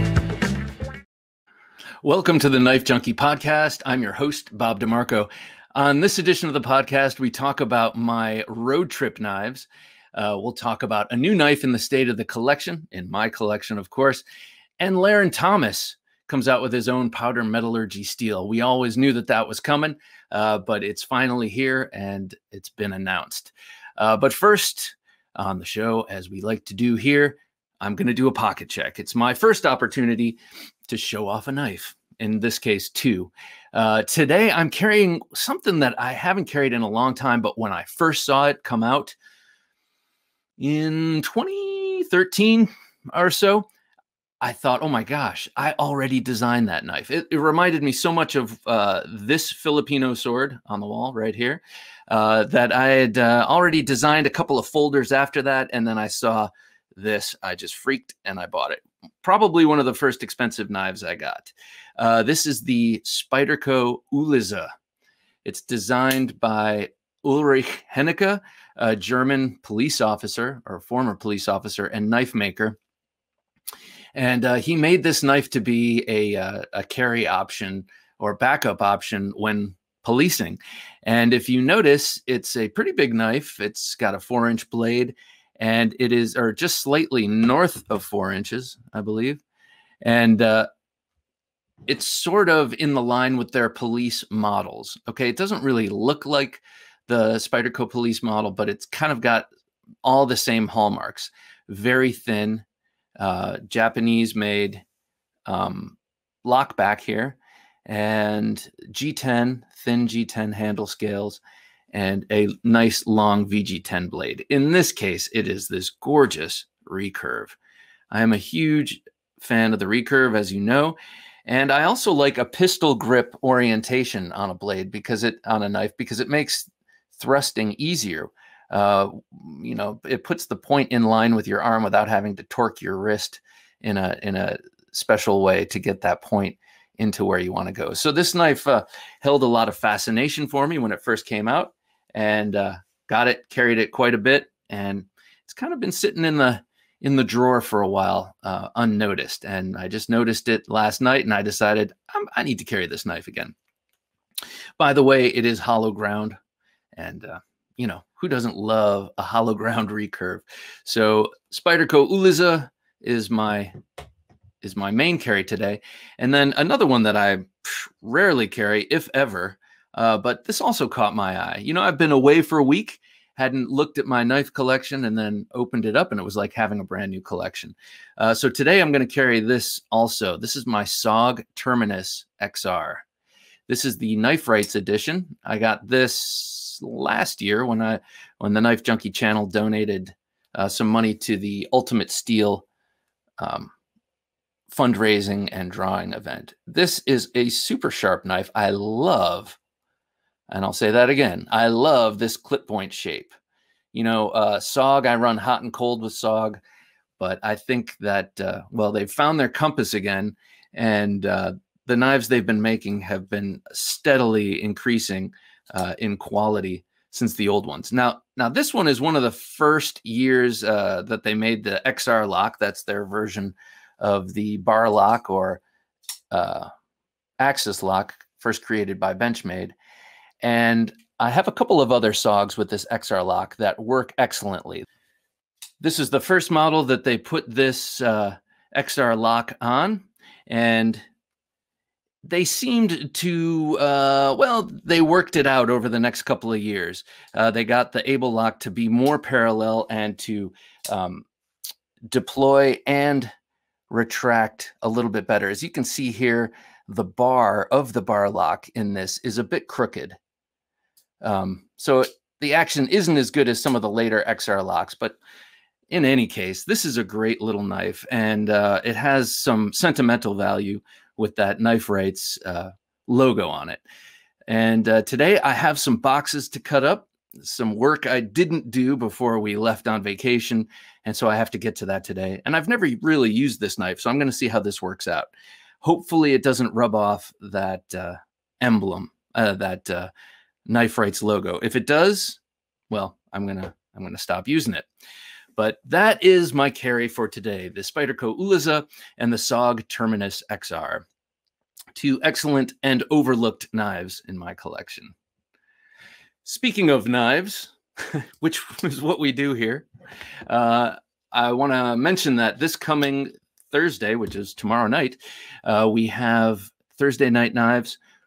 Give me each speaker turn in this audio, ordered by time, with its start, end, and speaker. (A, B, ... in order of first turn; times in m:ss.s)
0:02.0-0:14.2 A
0:14.8-0:30.4 A
0:30.9-0:39.1 A
0:40.6-0:43.7 A
0:44.4-1:04.7 A
1:05.4-1:12.8 A
1:14.1-1:29.4 A
1:30.0-1:30.7 A
1:31.9-1:39.5 A
1:40.0-1:42.6 A
1:43.2-1:44.8 A
1:45.5-1:51.4 A
1:51.9-1:57.6 A
1:58.1-2:33.5 A
2:34.8-2:36.4 A
2:36.9-2:43.7 A
2:44.6-3:03.0 A
3:03.7-3:12.6 A
3:13.4-3:13.7 A
3:14.7-3:19.6 A
3:20.5-3:23.3 A
3:23.9-3:26.6 A
3:27.2-3:45.6 A
3:46.3-3:46.7 A
3:47.4-3:49.7 A
3:50.4-3:54.8 A
3:55.8-4:01.0 A
4:02.2-4:11.2 A
4:12.1-4:13.3 A
4:13.9-4:20.2 A
4:21.2-4:25.2 A
4:25.9-4:33.8 A
4:34.5-4:45.3 A
4:45.8-4:50.1 A
4:50.7-4:52.4 A
4:52.9-4:54.9 A
4:55.6-5:01.0 A
5:01.9-5:05.1 A
5:06.4-5:09.9 A
5:10.5-5:18.0 A